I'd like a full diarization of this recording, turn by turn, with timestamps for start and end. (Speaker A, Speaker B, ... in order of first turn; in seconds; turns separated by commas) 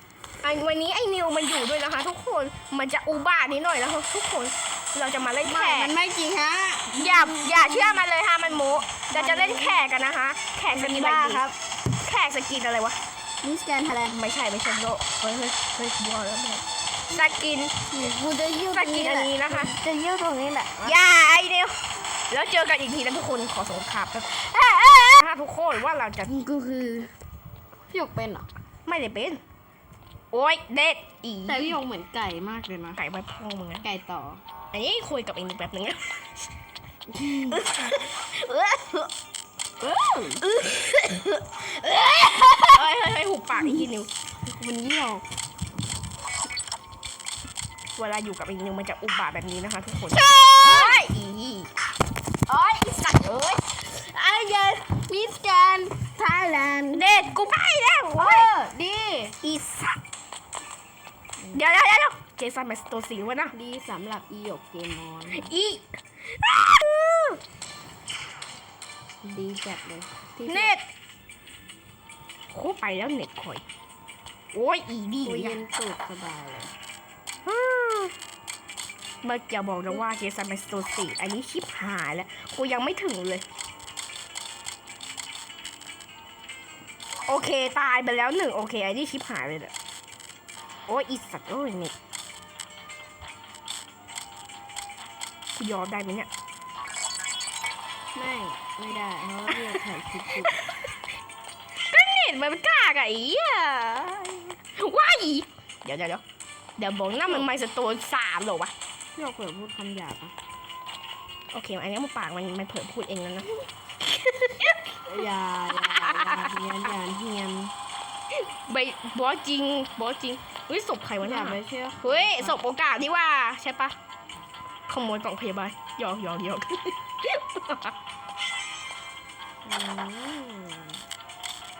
Speaker A: 0.4-5.9, Speaker B: 5.4-7.0, Speaker A: 6.9-13.0, Speaker B: 9.1-9.8, Speaker B: 10.7-11.5, Speaker B: 13.4-14.2, Speaker A: 14.1-17.8, Speaker B: 17.9-21.0, Speaker A: 18.7-19.7, Speaker A: 20.8-24.4, Speaker B: 24.5-25.2, Speaker A: 25.1-26.3, Speaker B: 26.2-27.1, Speaker B: 27.9-28.5, Speaker A: 28.9-29.4, Speaker A: 30.3-31.8, Speaker B: 31.4-33.0, Speaker A: 33.0-33.9, Speaker B: 33.8-34.4, Speaker A: 34.7-36.5, Speaker B: 37.1-38.0, Speaker A: 37.5-39.1, Speaker B: 39.8-40.5, Speaker A: 40.4-41.3, Speaker B: 41.6-42.9, Speaker A: 42.7-44.1, Speaker B: 43.5-43.9, Speaker B: 44.4-45.3, Speaker A: 48.0-51.7, Speaker B: 50.1-51.0, Speaker B: 52.5-57.3, Speaker A: 56.9-58.5, Speaker B: 58.2-59.4, Speaker A: 59.4-60.0, Speaker A: 61.5-63.5, Speaker B: 63.5-65.5, Speaker A: 65.3-67.4, Speaker B: 69.2-70.7, Speaker A: 70.5-70.9, Speaker A: 72.5-73.6, Speaker A: 74.5-75.6, Speaker B: 75.2-76.7, Speaker A: 77.4-78.1, Speaker A: 79.2-83.5, Speaker A: 87.3-89.7, Speaker A: 90.9-91.9, Speaker A: 95.6-96.3, Speaker B: 98.1-100.5, Speaker A: 100.6-101.0, Speaker A: 101.8-106.2, Speaker A: 106.8-108.7, Speaker B: 109.1-110.3, Speaker A: 111.5-115.0, Speaker B: 115.0-117.7, Speaker A: 115.8-116.5, Speaker A: 118.3-124.0, Speaker B: 121.2-122.6, Speaker A: 124.9-127.9, Speaker B: 129.6-131.0